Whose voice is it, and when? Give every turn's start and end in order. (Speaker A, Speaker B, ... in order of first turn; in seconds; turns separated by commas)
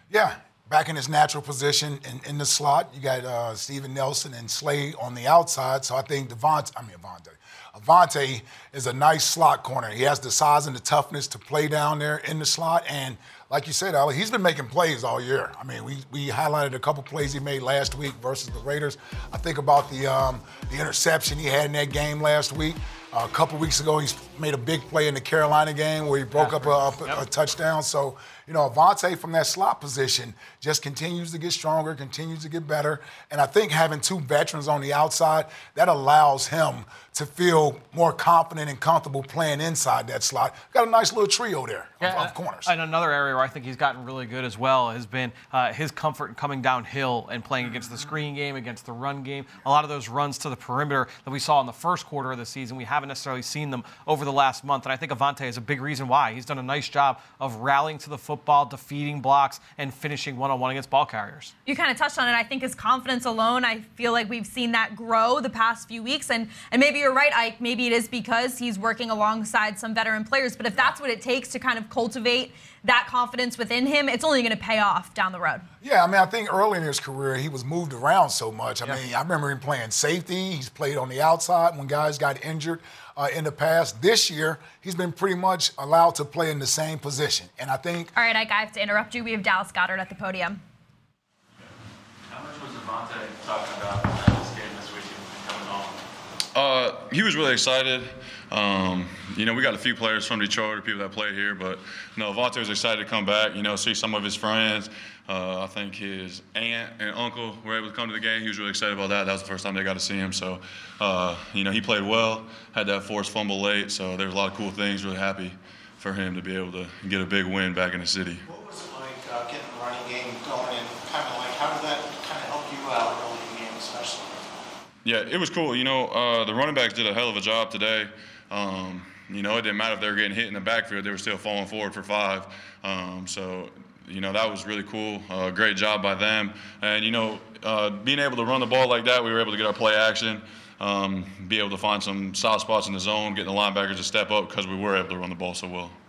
Speaker A: 0.1-42.7, Speaker B: 26.3-27.2, Speaker B: 42.0-61.5, Speaker C: 61.6-75.7, Speaker A: 75.8-88.1, Speaker C: 88.1-90.6, Speaker D: 92.3-96.0, Speaker E: 96.5-118.4, Speaker F: 118.4-124.5, Speaker E: 125.0-145.9